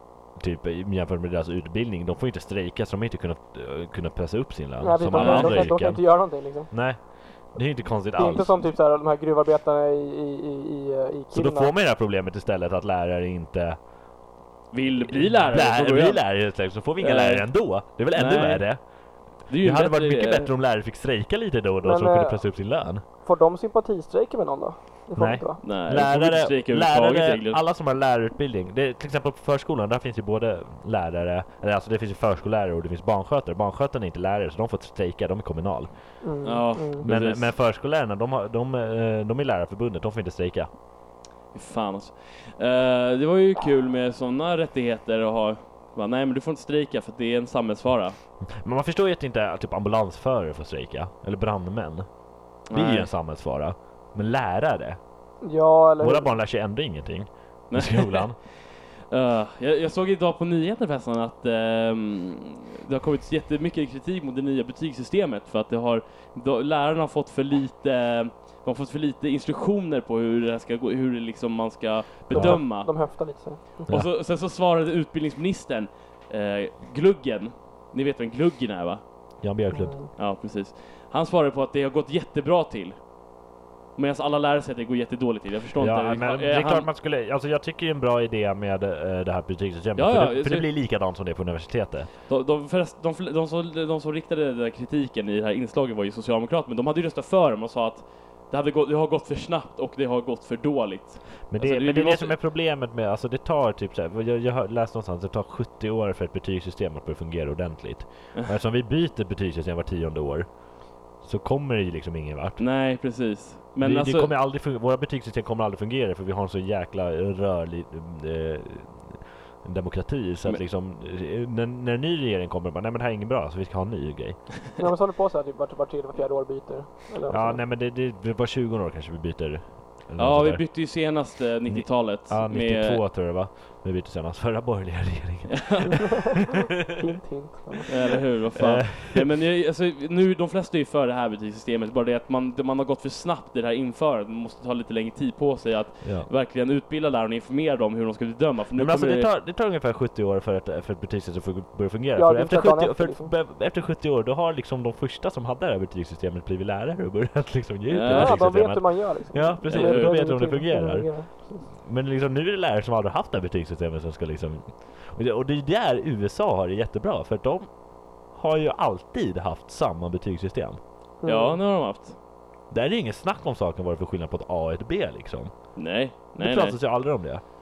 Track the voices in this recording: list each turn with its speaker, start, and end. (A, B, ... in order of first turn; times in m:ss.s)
0:00.3-0:08.5 A
0:04.8-0:06.7 B
0:05.1-0:05.7 C
0:08.1-0:11.7 B
0:11.3-0:13.8 A
0:14.7-0:18.9 C
0:15.0-0:23.0 A
0:19.5-0:20.5 C
0:21.8-0:22.6 B
0:23.1-0:25.6 B
0:25.1-0:35.9 A
0:25.6-0:27.6 C
0:36.2-0:37.1 B
0:36.4-0:37.5 C
0:37.0-0:40.7 A
0:41.5-0:48.2 C
0:48.4-0:52.1 A
0:52.7-0:53.1 C
0:52.7-0:55.0 A
0:55.4-0:56.3 B
0:56.0-0:58.4 A
0:57.7-0:58.5 C
0:59.1-1:13.0 C
1:12.3-1:13.9 B
1:12.3-1:12.6 A
1:13.9-1:19.0 C
1:19.4-1:20.0 A
1:19.7-1:20.1 B
1:20.1-1:23.0 C
1:24.0-1:26.9 C
1:25.8-1:32.1 A
1:30.0-1:30.7 C
1:32.3-1:42.4 C
1:41.5-1:50.6 A
1:51.2-1:52.6 A
1:52.6-1:54.3 C
1:53.8-2:04.4 A
2:04.8-2:07.6 B
2:07.3-2:10.6 A
2:10.2-2:13.0 C
2:11.7-2:16.4 A
2:15.5-2:16.1 C
2:16.4-2:18.0 B
2:17.9-2:29.3 C
2:18.5-2:19.3 A
2:26.0-2:26.3 A
2:28.8-2:41.2 A
2:32.2-2:33.3 B
2:37.9-2:38.4 C
2:38.1-2:41.6 B
2:39.7-2:40.2 C
2:41.8-2:50.8 A
2:51.2-2:51.6 B
2:51.2-2:52.2 C
2:52.7-2:55.8 A
2:55.8-2:56.8 C
2:56.4-2:57.4 A